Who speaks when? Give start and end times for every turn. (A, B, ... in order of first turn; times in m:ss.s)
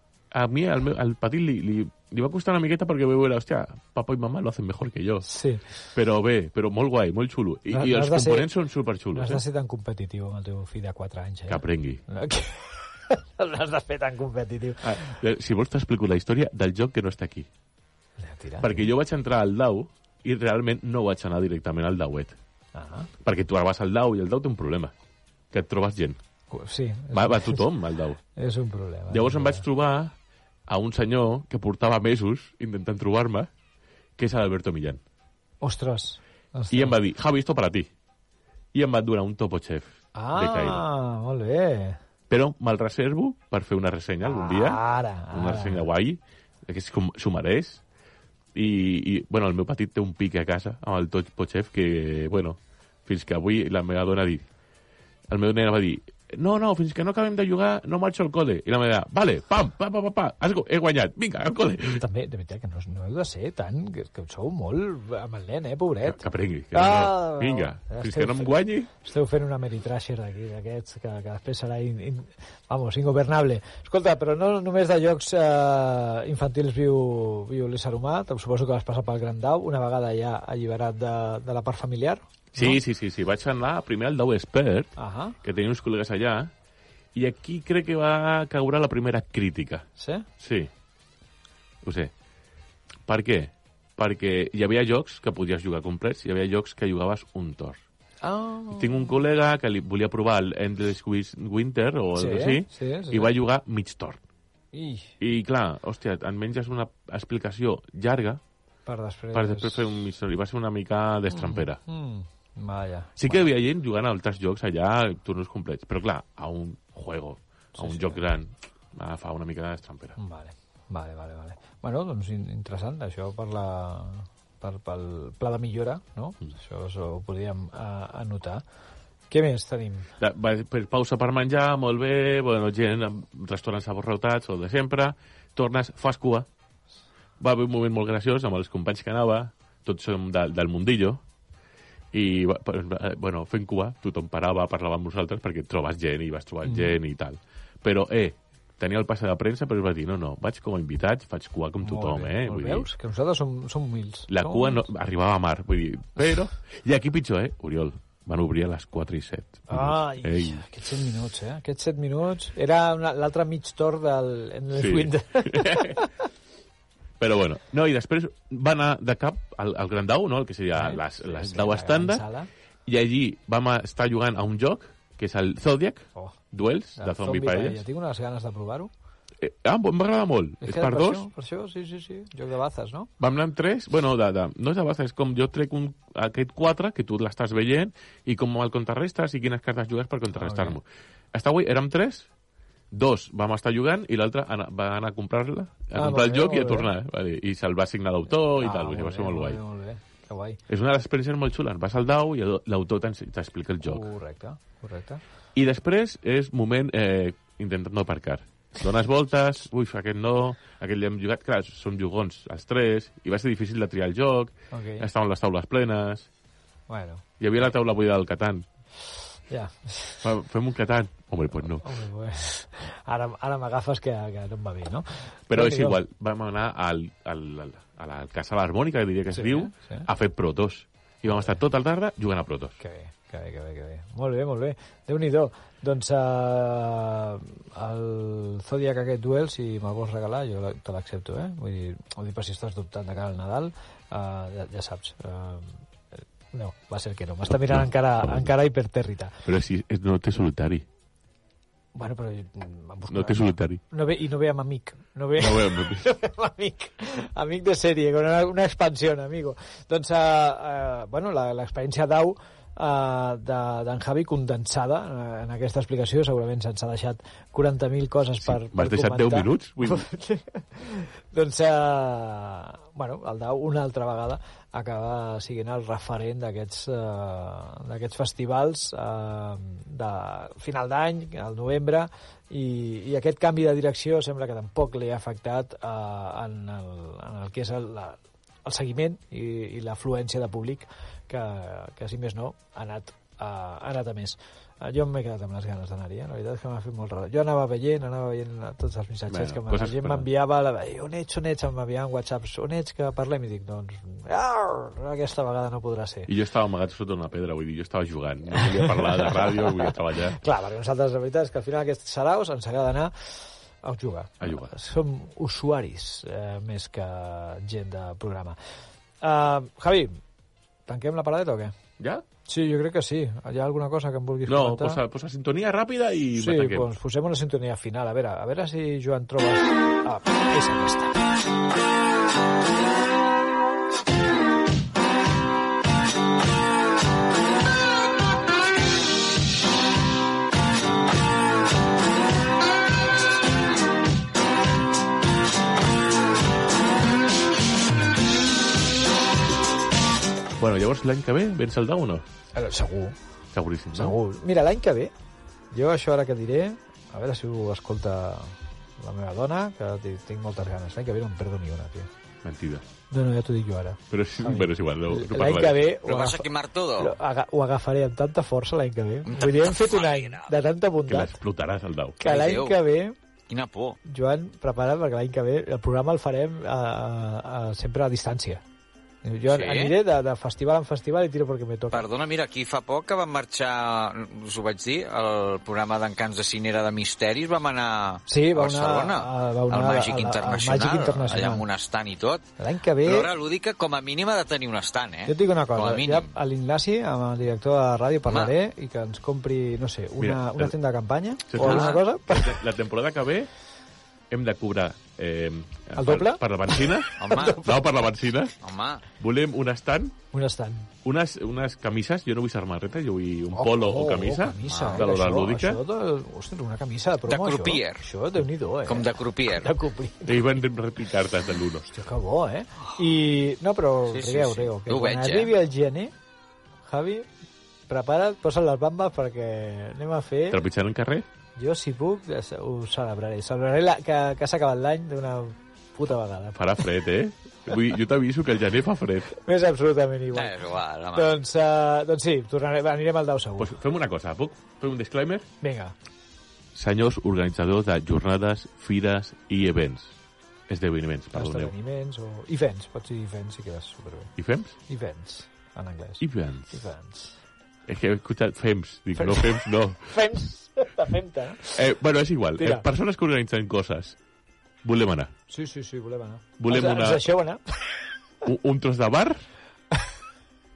0:00.3-0:05.3 A
0:05.3-0:05.7 B
0:05.9-0:09.4 A
0:07.7-0:08.5 B
0:09.1-0:15.2 B
0:11.5-0:12.0 A
0:14.8-0:17.5 A
0:18.2-0:18.8 B
0:18.6-0:22.4 A
0:22.8-0:23.1 B
0:23.2-0:24.9 A
0:25.5-0:26.2 A
0:26.5-0:27.6 B
0:27.1-0:28.2 A
0:28.4-0:29.6 B
0:29.1-0:30.1 A
0:30.7-0:33.5 A
0:34.2-0:35.0 A
0:35.6-0:37.0 B
0:36.7-0:37.9 A
0:38.7-0:40.8 A
0:40.2-0:42.0 B
0:42.3-0:44.8 A
0:44.2-0:45.8 B
0:45.3-0:47.8 A
0:48.6-0:54.4 A
0:55.3-1:02.0 A
1:01.8-1:22.8 B
1:06.1-1:08.9 A
1:22.5-1:26.5 A
1:25.0-1:25.4 B
1:27.2-1:29.9 A
1:30.0-1:30.3 B
1:30.4-1:30.7 A
1:31.8-1:32.1 A
1:33.1-1:37.8 A
1:38.2-1:39.1 B
1:38.7-1:44.2 A
1:42.2-1:43.3 B
1:44.7-1:45.1 B
1:45.2-1:48.4 A
1:48.9-1:50.0 B
1:49.3-1:51.8 A
1:51.3-1:53.5 B
1:53.2-2:00.2 A
1:57.8-1:58.2 B
2:00.2-2:08.6 B
2:09.3-2:10.1 B
2:10.2-2:16.5 A
2:17.4-2:21.2 A
2:22.1-2:32.9 A
2:26.6-2:27.0 B
2:31.8-2:34.9 B
2:34.3-2:40.6 A
2:39.7-2:46.1 B
2:44.8-2:46.0 A
2:47.2-2:52.2 A
2:50.8-2:52.5 B
2:52.9-2:57.8 A
2:57.0-2:58.9 B
2:59.4-3:01.2 A
3:00.6-3:03.1 B
3:03.2-3:12.3 A
3:10.4-3:10.8 B
3:12.9-3:19.6 A
3:16.0-3:16.9 B
3:18.6-3:20.6 B
3:20.7-3:24.0 A
3:23.8-3:25.2 B
3:25.6-3:36.3 A
3:34.7-3:35.1 B
3:36.9-3:37.2 B
3:37.4-3:38.6 A
3:39.5-3:40.2 B
3:40.2-3:42.0 A
3:41.8-3:46.0 B
3:45.5-3:52.8 A
3:49.3-3:50.1 B
3:51.3-3:51.6 B
3:52.8-4:05.8 B
4:06.5-4:09.4 B
4:07.5-4:08.4 A
4:09.4-4:10.8 A
4:12.0-5:06.3 B
4:13.1-4:13.8 A
4:15.4-4:16.1 A
4:28.4-4:30.1 A
4:59.3-5:00.3 A
5:06.3-5:10.4 A
5:08.5-5:18.6 B
5:14.4-5:14.7 A
5:19.2-5:20.2 B
5:20.9-5:21.7 B
5:22.0-5:22.2 A
5:22.5-5:25.0 B
5:24.5-5:26.9 A
5:26.4-5:31.3 B
5:50.6-5:52.2 A
5:52.6-5:53.2 B
5:53.5-5:54.2 A
5:54.0-5:55.1 B
5:55.7-6:02.1 B
6:02.4-6:02.8 A
6:03.1-6:11.4 B
6:04.1-6:05.9 A
6:06.0-6:07.1 C
6:09.2-6:10.5 C
6:11.1-6:12.2 A
6:12.2-6:13.2 B
6:12.2-6:12.8 C
6:13.5-6:14.0 C
6:14.1-6:18.6 B
6:19.2-6:22.1 B
6:19.5-6:20.0 C
6:21.9-6:32.5 C
6:28.3-6:31.7 B
6:32.6-6:33.3 B
6:33.0-6:36.3 C
6:35.3-6:42.6 B
6:40.2-6:40.7 A
6:41.5-6:43.5 A
6:41.6-6:42.0 C
6:44.3-6:48.6 A
6:46.0-6:47.8 B
6:47.2-6:47.6 C
6:48.6-6:49.0 C
6:49.2-6:50.2 A
6:50.3-6:50.9 B
6:51.0-6:55.8 A
6:53.5-7:00.6 B
6:54.7-6:55.1 C
6:57.3-6:58.0 C
6:58.9-6:59.7 C
7:00.3-7:01.9 A
7:01.9-7:06.1 B
7:04.1-7:05.5 C
7:06.9-7:07.3 B
7:07.9-7:10.6 B
7:10.5-7:11.3 A
7:11.6-7:16.8 B
7:16.6-7:19.3 A
7:19.3-7:23.8 B
7:20.3-7:21.3 C
7:23.6-7:25.5 A
7:25.6-7:25.9 B
7:26.7-7:30.2 A
7:30.7-7:31.7 A
7:31.3-7:34.3 B
7:34.4-7:34.8 A
7:34.9-7:37.4 B
7:36.2-7:36.9 A
7:37.9-7:40.1 A
7:39.2-7:41.8 B
7:41.7-7:44.2 A
7:42.6-7:42.8 B
7:44.8-7:45.3 A
7:45.5-7:48.0 B
7:46.6-7:47.2 A
7:48.4-7:49.4 A